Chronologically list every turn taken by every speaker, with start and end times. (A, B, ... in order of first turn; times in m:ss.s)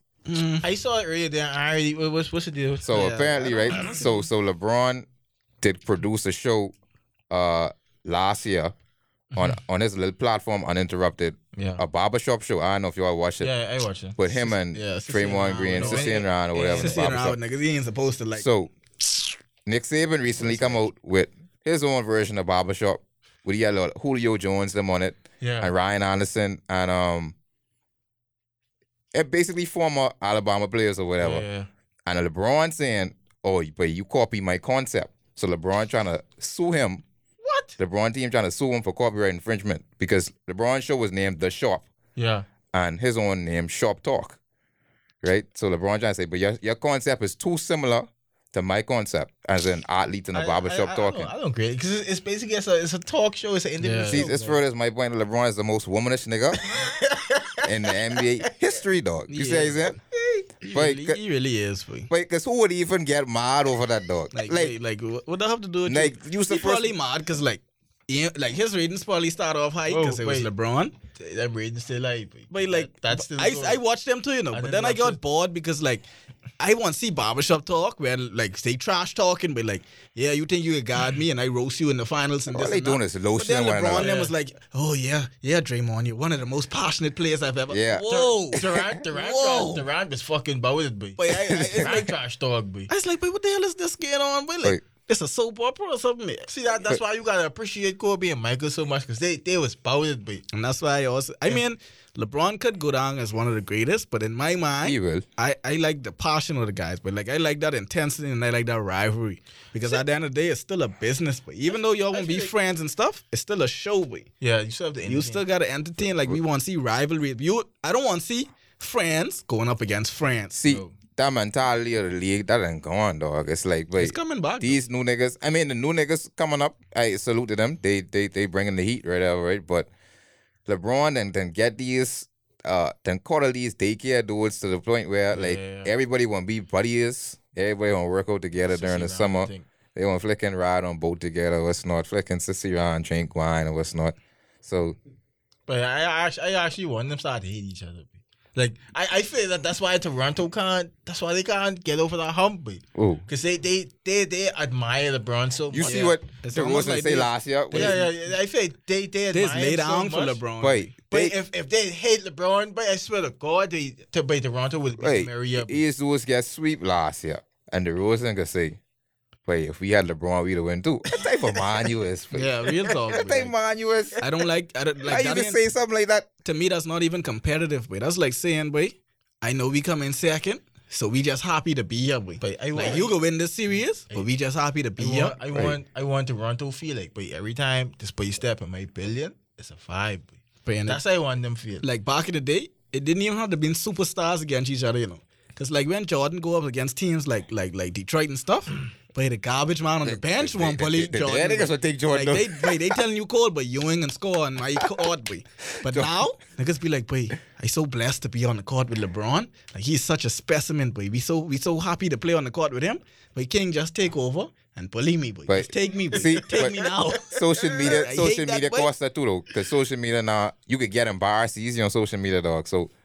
0:00.3-0:00.6 A
0:00.6-0:04.0 B
0:02.8-0:05.1 C
0:02.9-0:04.2 A
0:05.6-0:06.7 C
0:07.3-0:08.7 C
0:09.3-0:09.6 B
0:09.4-0:13.5 C
0:11.6-0:11.8 B
0:13.4-0:14.5 B
0:14.2-0:17.4 C
0:14.7-0:18.5 A
0:15.3-0:17.3 B
0:18.4-0:18.7 C
0:19.7-0:27.4 C
0:25.4-0:25.7 B
0:29.1-0:31.4 C
0:31.2-0:31.7 B
0:32.1-0:37.0 C
0:37.4-0:37.8 B
0:37.8-0:41.9 C
0:42.2-0:42.5 B
0:42.7-0:44.4 C
0:45.2-0:51.3 C
0:50.3-0:54.6 B
0:53.8-0:54.3 A
0:54.1-0:56.7 C
0:56.6-0:58.2 B
0:57.6-1:00.0 C
0:59.3-1:00.0 A
1:00.6-1:02.1 A
1:00.7-1:01.2 C
1:02.1-1:04.7 C
1:04.3-1:11.0 A
1:05.9-1:06.9 C
1:09.9-1:10.5 B
1:11.1-1:13.8 B
1:12.5-1:16.1 A
1:14.5-1:15.2 B
1:16.6-1:29.8 A
1:22.5-1:24.1 C
1:23.9-1:24.3 B
1:27.7-1:28.8 C
1:28.1-1:32.9 B
1:31.2-1:32.1 A
1:31.5-1:31.9 C
1:32.9-1:36.5 A
1:36.5-1:40.4 B
1:40.5-1:54.3 A
1:44.8-1:45.2 C
1:51.7-1:52.5 B
1:54.4-1:55.4 B
1:55.1-2:00.6 A
2:00.6-2:09.9 C
2:00.7-2:01.0 B
2:04.0-2:04.8 A
2:10.7-2:25.0 C
2:15.3-2:15.9 B
2:18.6-2:19.7 B
2:25.7-2:36.2 B
2:33.0-2:33.2 C
2:35.7-2:38.0 C
2:35.8-2:38.1 A
2:37.7-2:40.4 B
2:39.3-2:41.0 A
2:40.6-2:41.4 C
2:41.1-2:45.8 B
2:45.0-2:48.8 C
2:49.5-2:54.2 C
2:52.3-2:53.5 A
2:54.2-2:55.6 A
2:55.1-2:56.3 C
2:56.4-3:05.4 A
3:02.4-3:03.2 B
3:05.0-3:11.8 B
3:05.5-3:05.8 C
3:10.7-3:11.0 A
3:11.8-3:38.9 A
3:20.0-3:23.0 C
3:25.8-3:26.1 C
3:35.5-3:42.9 C
3:36.1-3:38.1 B